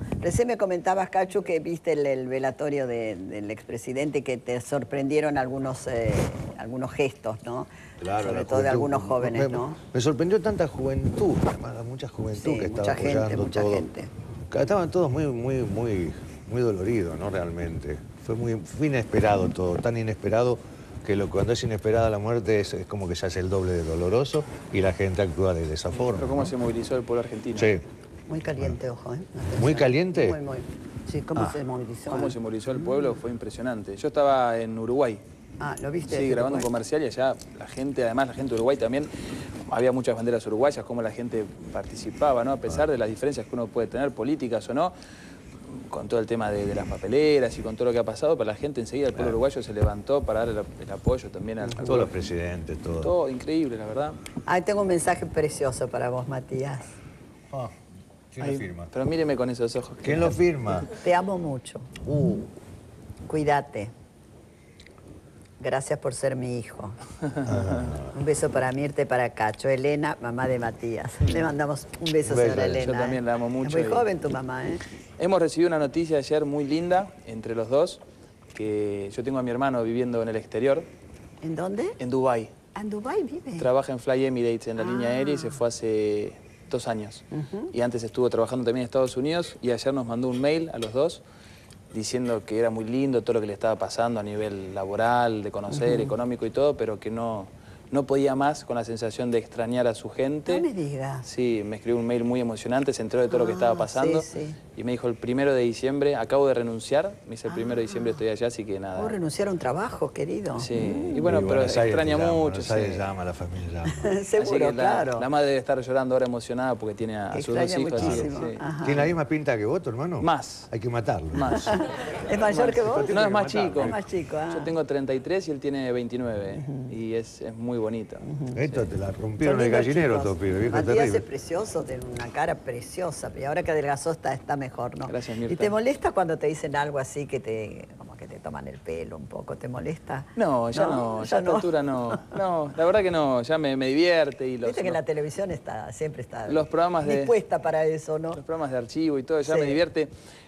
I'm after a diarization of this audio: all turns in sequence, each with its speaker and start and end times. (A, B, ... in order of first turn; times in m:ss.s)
0:00.2-0:09.8 A
0:08.0-0:13.9 B
0:12.4-0:14.1 A
0:14.5-0:26.5 B
0:26.0-0:27.7 C
0:27.6-0:27.8 B
0:28.3-0:33.1 A
0:29.6-0:30.4 B
0:32.1-0:35.2 C
0:35.6-0:36.7 A
0:36.1-0:39.1 C
0:39.6-0:44.9 C
0:45.7-0:52.1 C
0:51.8-0:53.1 B
0:53.0-0:54.2 C
0:54.5-0:56.9 A
0:58.3-0:58.9 B
0:58.4-1:00.8 C
1:00.0-1:00.9 B
1:00.9-1:01.9 A
1:02.0-1:02.5 B
1:03.3-1:03.9 A
1:05.6-1:07.0 A
1:07.4-1:08.1 B
1:08.1-1:14.8 A
1:12.2-1:12.8 B
1:12.6-1:14.1 C
1:15.2-1:18.0 C
1:18.6-1:20.9 C
1:21.4-1:22.0 A
1:22.0-1:22.5 C
1:22.8-1:23.7 A
1:23.6-1:31.2 C
1:24.8-1:25.6 A
1:27.3-1:27.7 A
1:31.9-1:40.7 C
1:35.7-1:36.1 A
1:40.5-1:41.3 A
1:41.2-1:49.2 C
1:43.3-1:44.6 A
1:47.5-1:48.2 A
1:49.0-1:51.3 A
1:50.6-1:53.1 C
1:51.2-1:54.2 B
1:53.9-1:55.3 A
1:54.4-1:58.6 C
1:57.3-1:59.1 A
1:58.0-2:01.8 B
2:00.2-2:00.7 C
2:01.3-2:01.8 C
2:01.7-2:03.2 A
2:02.5-2:04.0 B
2:02.5-2:04.0 C
2:03.8-2:04.7 A
2:04.5-2:08.3 C
2:08.3-2:08.6 A
2:08.6-2:11.2 B
2:09.4-2:22.4 A
2:15.1-2:15.7 C
2:20.4-2:25.0 C
2:24.6-2:28.4 A
2:26.5-2:27.3 C
2:28.4-2:30.1 C
2:29.5-2:29.8 A